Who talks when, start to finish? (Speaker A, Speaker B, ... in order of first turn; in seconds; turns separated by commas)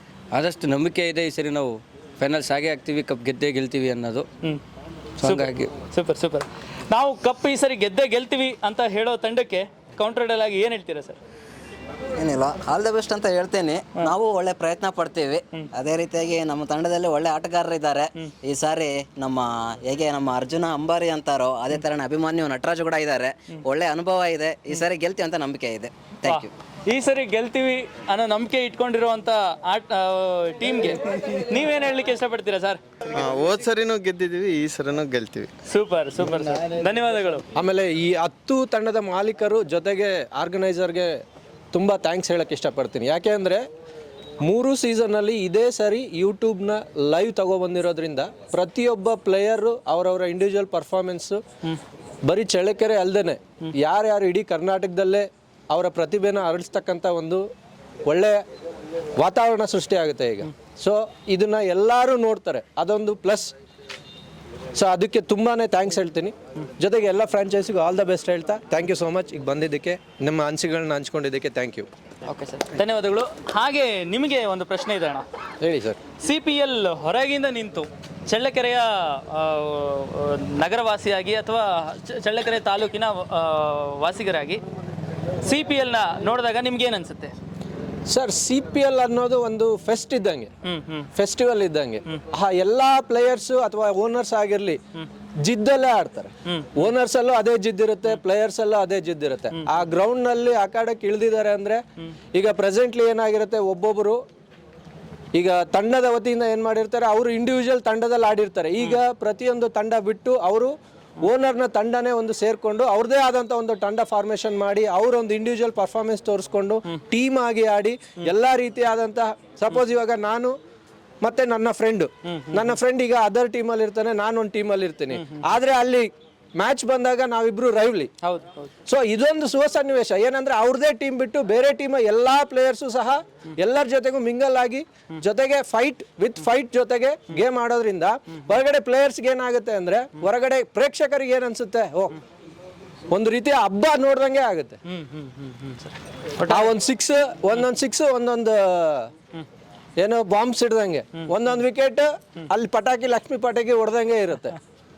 Speaker A: 0.3-4.2, Speaker A: 5.2-5.7, Speaker B: 5.2-11.2, Speaker C: 12.2-26.5, Speaker B: 26.2-32.8, Speaker D: 33.1-35.5, Speaker B: 35.7-37.4, Speaker E: 37.5-41.2, Speaker E: 41.7-43.6, Speaker E: 44.4-51.4, Speaker E: 52.2-57.4, Speaker E: 58.0-58.4, Speaker E: 59.2-63.5, Speaker E: 64.7-71.9, Speaker B: 72.2-75.2, Speaker E: 75.6-76.0, Speaker B: 76.2-84.6, Speaker B: 85.4-87.3, Speaker E: 88.1-90.5, Speaker B: 90.7-91.1, Speaker E: 91.1-94.8, Speaker E: 95.4-101.8, Speaker E: 102.3-104.2, Speaker E: 105.3-120.5, Speaker E: 121.2-128.1, Speaker B: 122.3-122.7, Speaker B: 128.2-128.7, Speaker E: 128.9-142.2, Speaker E: 143.1-144.8, Speaker B: 144.9-146.7, Speaker E: 146.5-149.1, Speaker E: 150.0-154.6